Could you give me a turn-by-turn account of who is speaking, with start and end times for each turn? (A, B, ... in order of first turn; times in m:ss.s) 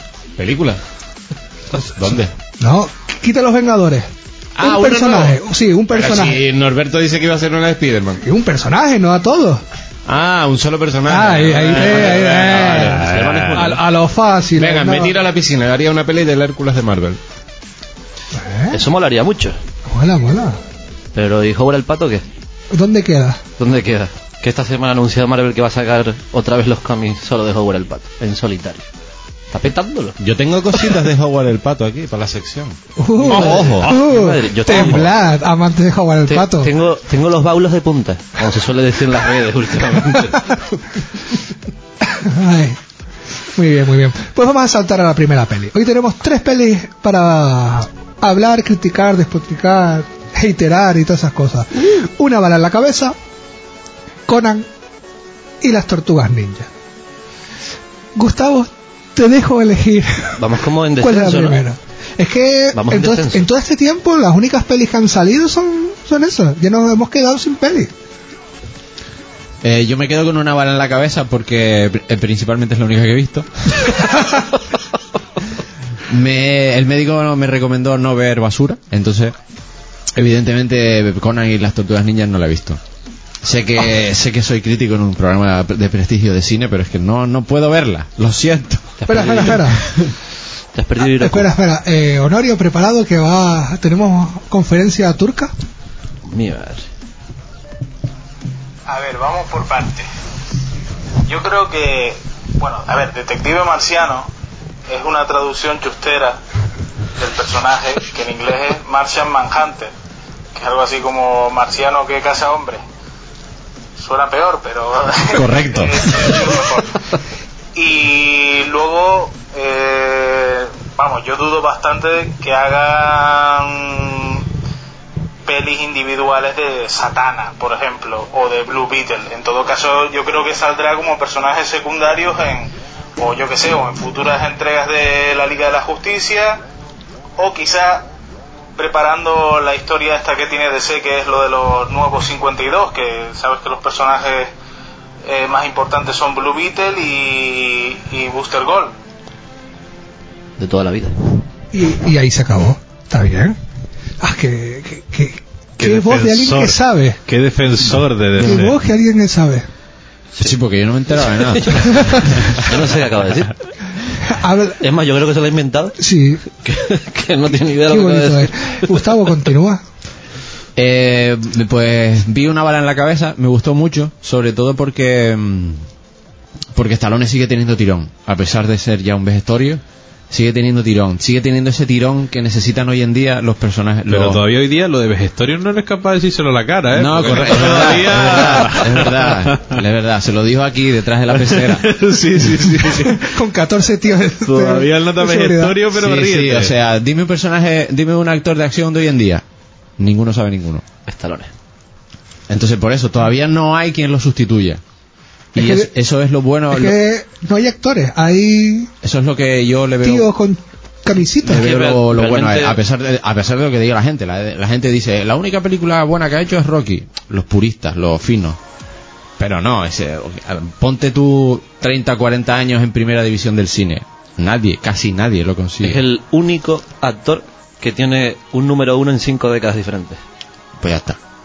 0:00.4-0:00.8 A
0:01.8-0:04.1 B
0:02.0-0:02.3 A
0:04.6-0:05.4 A
0:04.6-0:06.4 B
0:05.9-0:08.2 A
0:08.2-0:09.6 B
0:10.1-0:13.6 A
0:11.1-0:15.2 B
0:12.0-0:13.8 C
0:14.5-0:17.2 A
0:18.3-0:18.8 B
0:18.7-0:19.6 C
0:19.9-0:20.6 B
0:21.2-0:22.2 C
0:22.7-0:23.4 B
0:23.6-0:28.8 C
0:29.5-0:30.2 C
0:30.2-0:32.8 A
0:33.0-0:36.7 B
0:33.2-0:35.1 C
0:33.3-0:34.0 A
0:36.3-0:40.4 C
0:42.0-0:42.8 B
0:43.6-0:53.2 B
0:54.3-0:54.7 B
0:55.6-0:56.7 B
0:58.2-1:00.4 B
1:00.4-1:01.6 C
1:01.0-1:07.9 B
1:02.7-1:03.5 C
1:09.6-1:14.0 D
1:16.1-1:19.4 D
1:20.1-1:22.8 D
1:23.4-1:29.6 D
1:29.0-1:29.7 C
1:29.1-1:29.8 B
1:30.8-1:31.5 C
1:31.0-1:35.5 B
1:36.2-1:36.9 C
1:38.9-1:40.1 E
1:41.2-1:44.3 E
1:44.9-1:46.4 E
1:47.2-1:49.9 E
1:50.6-1:52.8 E
1:54.0-1:56.9 E
1:55.3-1:56.5 D
1:57.8-2:04.5 E
2:05.5-2:16.6 E
2:17.4-2:18.1 E
2:18.8-2:24.5 E
2:25.3-2:28.9 E
2:30.6-2:31.2 C
2:31.7-2:33.6 B
2:34.2-2:37.2 B
2:35.8-2:38.8 F
2:38.4-2:39.7 B
2:40.4-2:42.6 D
2:41.2-2:43.5 C
2:44.3-2:44.8 B
2:44.8-2:46.0 C
2:46.0-2:46.4 B
2:46.5-2:48.5 C
2:47.9-2:49.8 B
2:50.8-2:55.8 D
2:56.8-3:04.4 D
3:04.1-3:09.7 F
3:06.9-3:11.9 D
3:11.5-3:13.3 F
3:12.9-3:15.8 B
3:14.4-3:16.7 F
3:15.9-3:19.4 D
3:20.0-3:20.8 D
3:21.1-3:21.5 C
3:22.5-3:24.8 D
3:25.6-3:27.0 D
3:25.6-3:25.9 B
3:26.7-3:28.9 B
3:29.0-3:30.3 D
3:30.0-3:31.7 B
3:31.4-3:38.6 D
3:31.5-3:32.8 C
3:39.4-3:46.0 D
3:45.8-3:50.2 C
3:50.8-3:51.2 D